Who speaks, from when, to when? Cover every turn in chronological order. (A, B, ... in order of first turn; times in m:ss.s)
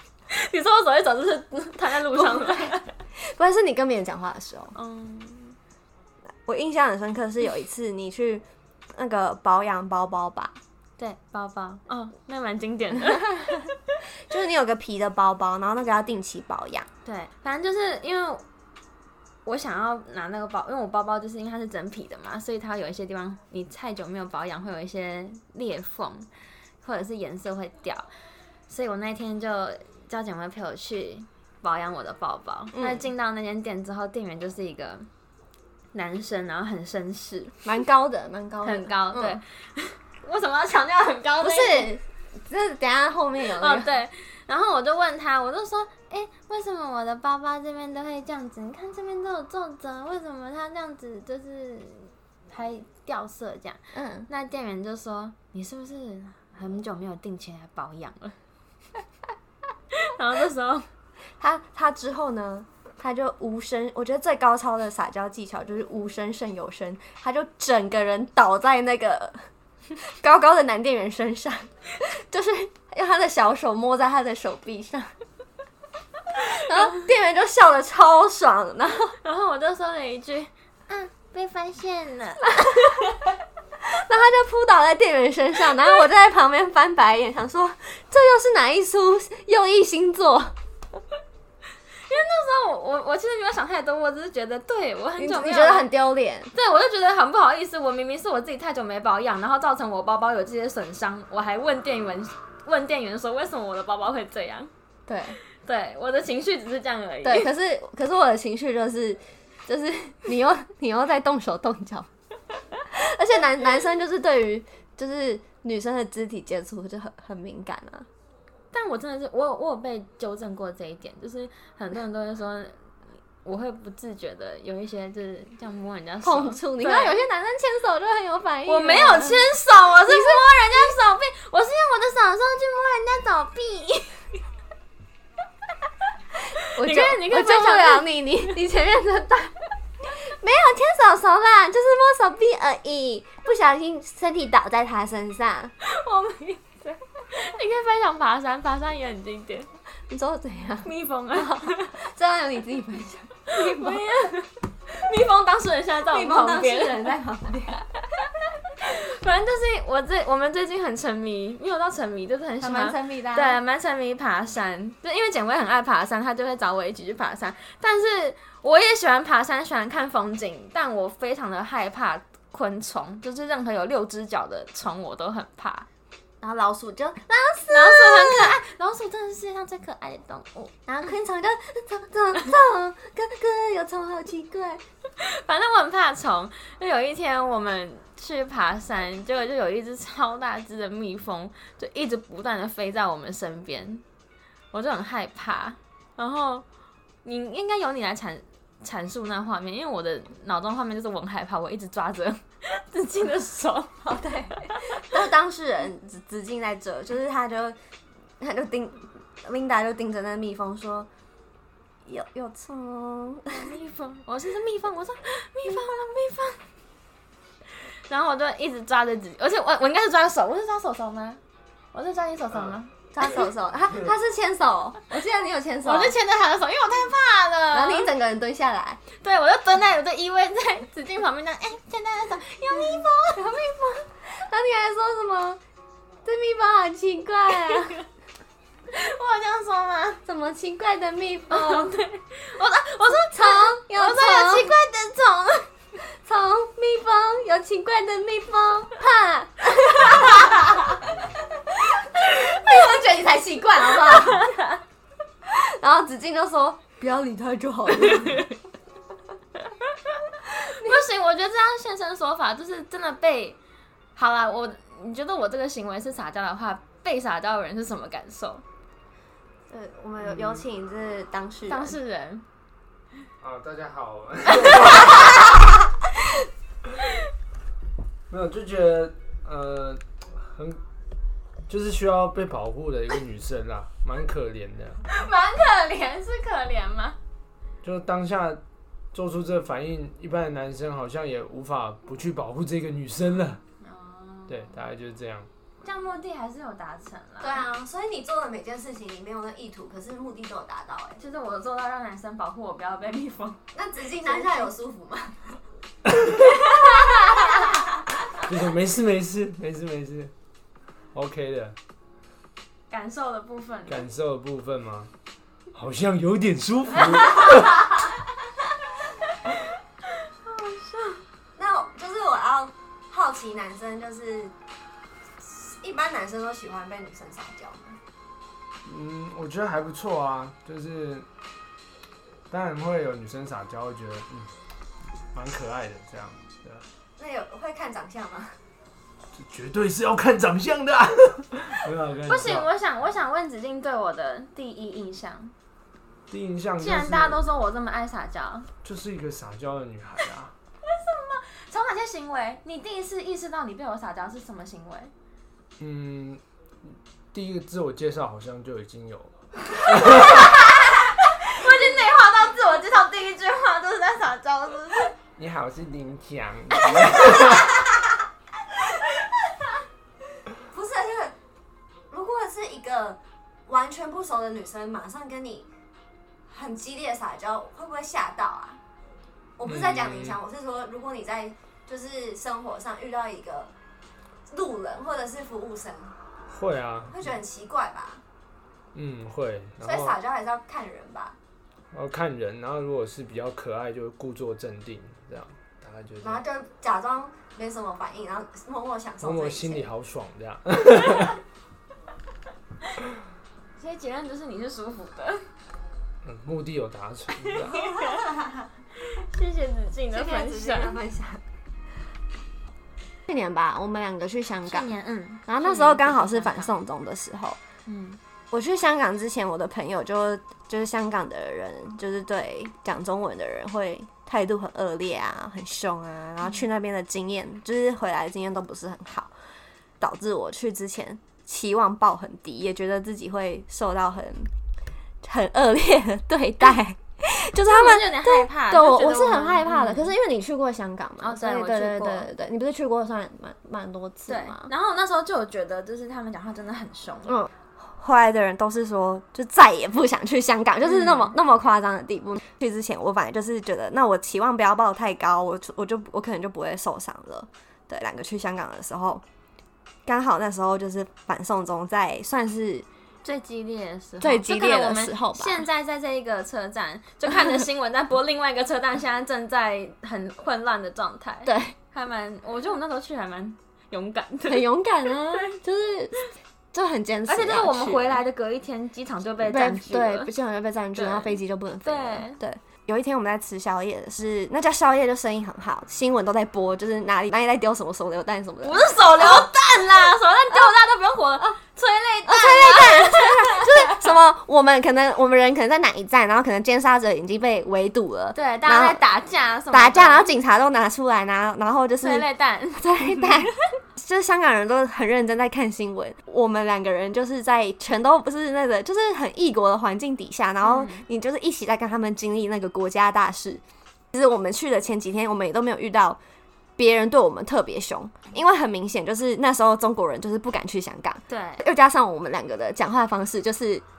0:00.3-0:02.9 A
0:02.2-0:02.5 B
0:03.2-0:04.8 B
0:04.8-0:05.6 A
0:06.5-0:10.6 B
0:11.0-0:13.7 A
0:14.3-0:16.9 B
0:17.0-0:18.4 A
0:19.4-0:26.3 A
0:26.8-0:28.1 A
0:28.7-0:35.1 A
0:32.7-0:33.0 B
0:35.9-0:37.6 A
0:37.6-0:39.4 B
0:38.6-0:41.9 A
0:41.4-0:43.9 B
0:43.6-0:58.4 A
0:53.9-0:54.3 B
0:59.9-1:00.9 A
1:01.4-1:09.4 B
1:10.0-1:15.1 B
1:16.4-1:19.2 B
1:19.2-1:23.0 A
1:23.8-1:30.6 B
1:32.1-1:35.9 A
1:35.2-1:36.5 B
1:36.5-1:44.7 A
1:45.1-1:45.4 B
1:45.6-1:47.5 A
1:47.2-1:52.1 B
1:52.9-1:58.1 B
1:58.7-2:02.8 A
2:03.4-2:07.2 A
2:06.2-2:09.5 B
2:08.7-2:14.4 A
2:10.0-2:10.9 B
2:16.6-2:25.7 B
2:16.6-2:18.1 A
2:25.8-2:29.7 A
2:30.1-2:34.1 B
2:30.8-2:32.0 A
2:33.5-2:37.1 A
2:36.1-2:37.8 B
2:38.8-2:55.9 A
2:42.6-2:43.6 B
2:56.4-2:58.6 B
2:57.7-3:00.9 A
3:00.9-3:04.8 B
3:05.2-3:14.0 A
3:14.7-3:16.6 A
3:17.2-3:25.1 A
3:24.1-3:27.8 B
3:28.4-3:31.1 B
3:32.1-3:33.7 B
3:33.5-3:36.6 A
3:38.1-3:41.4 A
3:41.9-3:43.0 A
3:43.1-3:46.2 B
3:45.8-3:48.1 A
3:47.7-3:49.0 B
3:49.2-3:53.5 A
3:52.9-3:55.6 B
3:56.2-3:58.0 B
3:58.9-4:00.2 A
4:00.3-4:02.0 B
4:01.5-4:05.7 A
4:03.3-4:04.7 B
4:06.2-4:11.0 B
4:11.7-4:14.6 B
4:14.2-4:14.8 A
4:15.5-4:18.5 B
4:18.1-4:18.5 A
4:19.8-4:23.6 A
4:20.7-4:21.0 B
4:24.2-4:28.6 A
4:29.7-4:32.0 B
4:31.7-4:32.4 A
4:33.4-4:35.5 C
4:38.3-4:40.8 C
4:41.7-4:45.0 C
4:45.0-4:47.2 A
4:47.8-4:48.6 C
4:49.1-4:53.6 C
4:53.8-4:54.8 A
4:54.5-4:55.5 C
4:55.8-4:57.6 A
4:57.4-5:01.2 B
5:01.2-5:03.6 A
5:03.7-5:05.6 B
5:04.2-5:04.7 A
5:06.4-5:07.7 A
5:08.4-5:10.3 C
5:11.1-5:11.8 C
5:12.9-5:14.1 A
5:13.9-5:15.1 C
5:15.7-5:17.9 C
5:20.2-5:21.2 A
5:21.6-5:24.5 B
5:25.4-5:28.0 B
5:28.8-5:31.3 C
5:32.5-5:34.5 C
5:35.3-5:36.8 C
5:37.2-5:38.6 B
5:39.4-5:42.7 C
5:42.3-5:45.5 A
5:46.3-5:47.4 C
5:46.8-5:48.7 A
5:48.8-5:50.5 C
5:50.8-5:55.1 A
5:55.8-5:56.4 C
5:57.3-6:00.6 C
5:59.9-6:05.2 A
6:05.4-6:07.8 C
6:10.6-6:11.4 B
6:12.1-6:15.7 B
6:16.5-6:18.8 B
6:19.6-6:23.7 B
6:19.7-6:20.4 C
6:24.5-6:26.2 B
6:26.5-6:27.2 C
6:27.1-6:28.2 B
6:28.9-6:30.2 C
6:29.8-6:31.4 B
6:31.9-6:36.4 C
6:36.2-6:39.9 B
6:39.2-6:41.4 C
6:43.8-6:45.4 A
6:46.2-6:48.0 C
6:47.6-6:48.3 A
6:49.0-6:51.0 A
6:50.1-6:51.4 B
6:53.3-6:54.9 B
6:54.7-6:56.7 A
6:55.5-6:57.6 B
6:57.9-6:58.2 A
6:58.5-7:09.3 B
7:10.0-7:14.5 B
7:15.2-7:24.7 B
7:17.6-7:20.1 A
7:21.2-7:22.3 A
7:24.3-7:27.4 A
7:27.3-7:39.2 B
7:30.8-7:31.3 A
7:40.1-7:42.9 B
7:43.2-7:54.7 A
7:44.2-7:45.6 B
7:51.5-7:51.8 B
7:54.5-7:56.2 B
7:55.3-7:55.6 A
7:56.7-7:58.2 B
7:57.3-8:00.3 A
7:59.4-8:09.5 B
8:01.0-8:02.4 A
8:08.6-8:14.0 A
8:12.3-8:19.0 B
8:18.4-8:20.3 A
8:19.7-8:36.2 B
8:22.0-8:23.6 A
8:30.6-8:31.1 A
8:36.8-8:43.8 B
8:41.3-8:41.6 A